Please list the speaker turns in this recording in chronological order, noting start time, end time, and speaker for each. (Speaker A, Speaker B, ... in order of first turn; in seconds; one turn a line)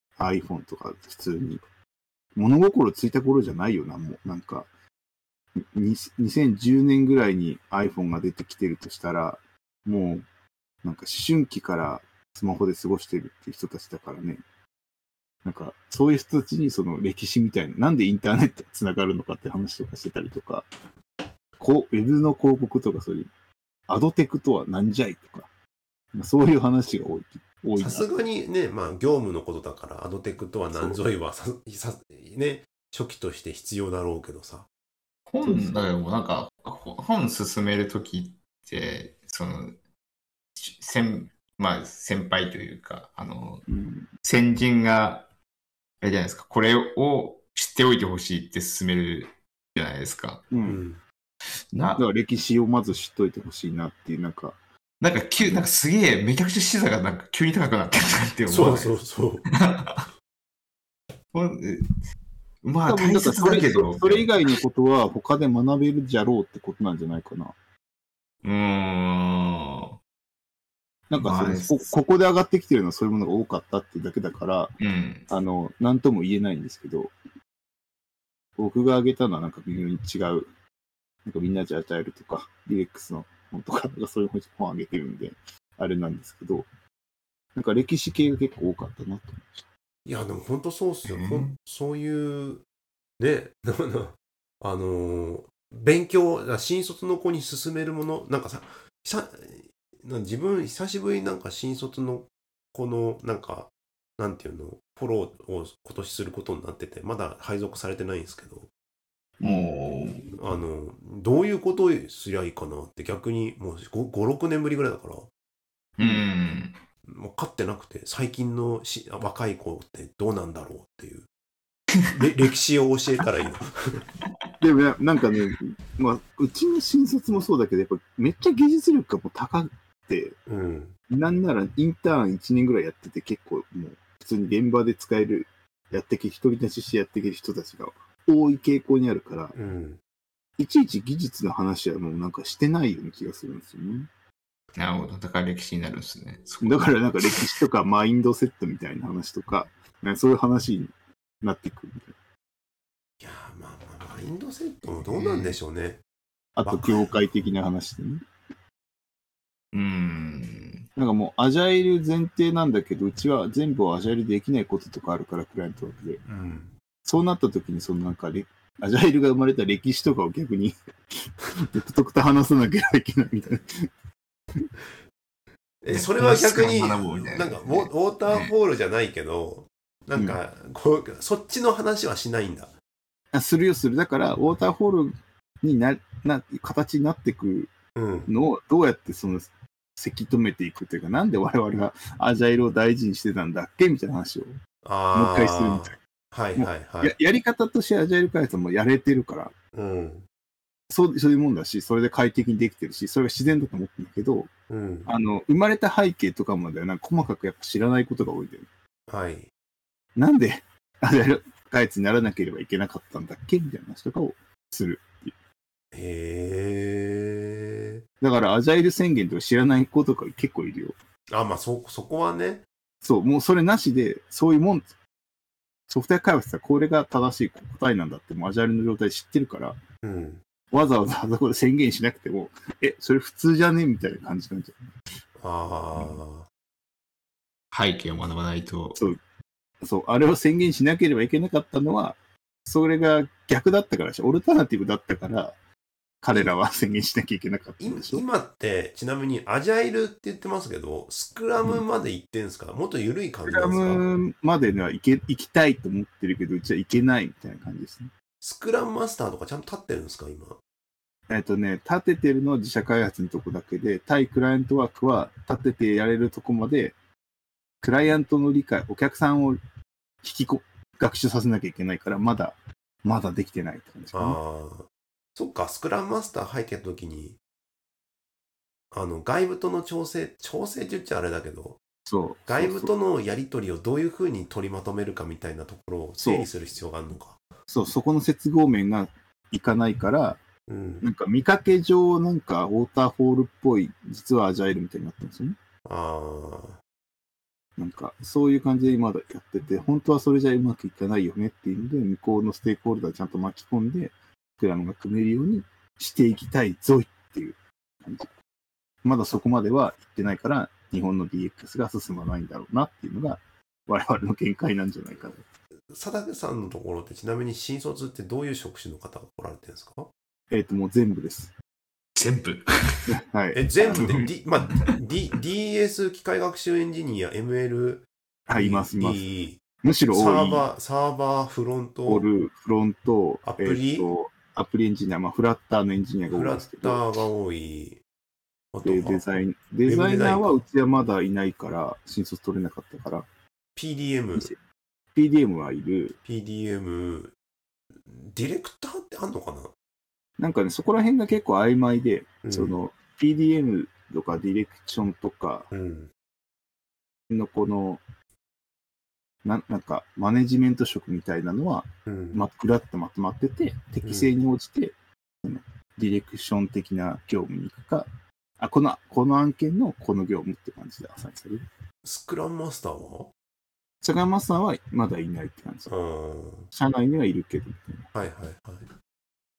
Speaker A: 0.2-1.6
Speaker A: 2.4-4.7
Speaker A: 5.6-10.2
Speaker A: 10.8-14.4
Speaker A: 15.4-20.7
Speaker A: 21.6-23.3
Speaker A: 23.9-25.5
Speaker A: 26.1-28.1
Speaker B: 27.8-34.7
Speaker A: 30.7-31.0
Speaker C: 35.3-39.8
Speaker A: 35.4-35.9
Speaker C: 40.6-43.7
Speaker A: 43.7-44.1
Speaker C: 44.2-45.3
Speaker C: 46.0-50.5
Speaker A: 50.5-50.8
Speaker B: 50.6-51.0
Speaker C: 51.7-52.0
Speaker A: 52.0-54.6
Speaker C: 55.0-59.0
Speaker B: 58.5-59.5
Speaker C: 59.5-60.0
Speaker C: 61.3-62.0
Speaker C: 62.6-64.6
Speaker A: 62.9-67.5
Speaker C: 68.4-70.0
Speaker A: 71.1-74.7
Speaker C: 71.2-71.9
Speaker C: 74.8-75.3
Speaker A: 75.3-77.1
Speaker A: 78.6-80.5
Speaker A: 81.2-86.7
Speaker A: 87.5-89.6
Speaker B: 90.0-92.6
Speaker C: 91.1-91.5
Speaker B: 93.2-108.7
Speaker C: 109.4-110.2
Speaker B: 110.4-115.3
Speaker C: 116.0-116.8
Speaker A: 116.0-116.2
Speaker B: 117.1-121.3
Speaker B: 122.1-124.0
Speaker A: 124.6-130.4
Speaker B: 130.5-130.9
Speaker A: 131.1-139.6
Speaker B: 139.5-140.0
Speaker A: 140.6-144.1
Speaker C: 144.8-147.5
Speaker A: 146.6-152.1
Speaker B: 153.2-156.0
Speaker C: 154.9-155.6
Speaker A: 156.6-158.2
Speaker B: 156.6-157.1
Speaker C: 159.7-160.8
Speaker A: 160.9-166.2
Speaker B: 166.2-166.7
Speaker A: 167.0-173.6
Speaker B: 175.8-182.7
Speaker C: 175.9-178.5
Speaker A: 183.3-187.7
Speaker B: 187.9-188.3
Speaker A: 188.3-194.6
Speaker B: 194.8-197.1
Speaker A: 195.1-196.0
Speaker A: 196.6-199.5
Speaker B: 199.7-200.3
Speaker A: 200.9-204.5
Speaker B: 204.7-205.1
Speaker A: 205.1-208.7
Speaker B: 209.1-209.5
Speaker A: 210.2-215.3
Speaker B: 215.9-218.0
Speaker A: 218.2-221.0
Speaker B: 221.3-222.7
Speaker A: 223.0-224.9
Speaker A: 225.9-229.8
Speaker B: 230.0-230.4
Speaker A: 230.7-234.8
Speaker B: 235.4-236.5
Speaker C: 237.7-239.0
Speaker A: 239.8-245.6
Speaker A: 246.2-248.2
Speaker B: 247.8-254.0
Speaker A: 253.5-258.1
Speaker B: 258.4-260.6
Speaker A: 261.3-266.9
Speaker A: 267.8-269.6
Speaker A: 270.2-274.4
Speaker B: 274.1-277.4
Speaker B: 278.9-281.8
Speaker A: 282.1-282.9
Speaker B: 282.5-287.4
Speaker A: 286.2-286.5
Speaker A: 287.7-290.4
Speaker B: 290.7-291.0
Speaker A: 291.0-295.6
Speaker B: 295.8-296.8
Speaker A: 297.8-308.3
Speaker A: 309.0-315.4
Speaker B: 315.9-320.1
Speaker A: 320.5-321.5
Speaker C: 322.1-323.1
Speaker A: 323.1-324.3
Speaker B: 323.5-332.3
Speaker C: 324.0-324.9
Speaker A: 328.5-329.3
Speaker A: 329.8-330.6
Speaker A: 332.1-337.0
Speaker B: 333.4-334.1
Speaker B: 336.3-338.0
Speaker B: 338.7-340.6
Speaker A: 338.8-343.3
Speaker B: 343.8-344.5
Speaker A: 345.1-346.2
Speaker B: 346.2-347.3
Speaker B: 348.1-349.7
Speaker A: 350.4-355.7
Speaker B: 352.4-352.8
Speaker B: 355.7-356.1
Speaker A: 357.3-358.0
Speaker A: 359.4-371.6
Speaker B: 362.1-362.4
Speaker B: 364.0-364.3
Speaker B: 372.0-373.3
Speaker A: 374.0-375.9
Speaker B: 375.9-376.7
Speaker A: 376.7-378.1
Speaker B: 378.1-378.9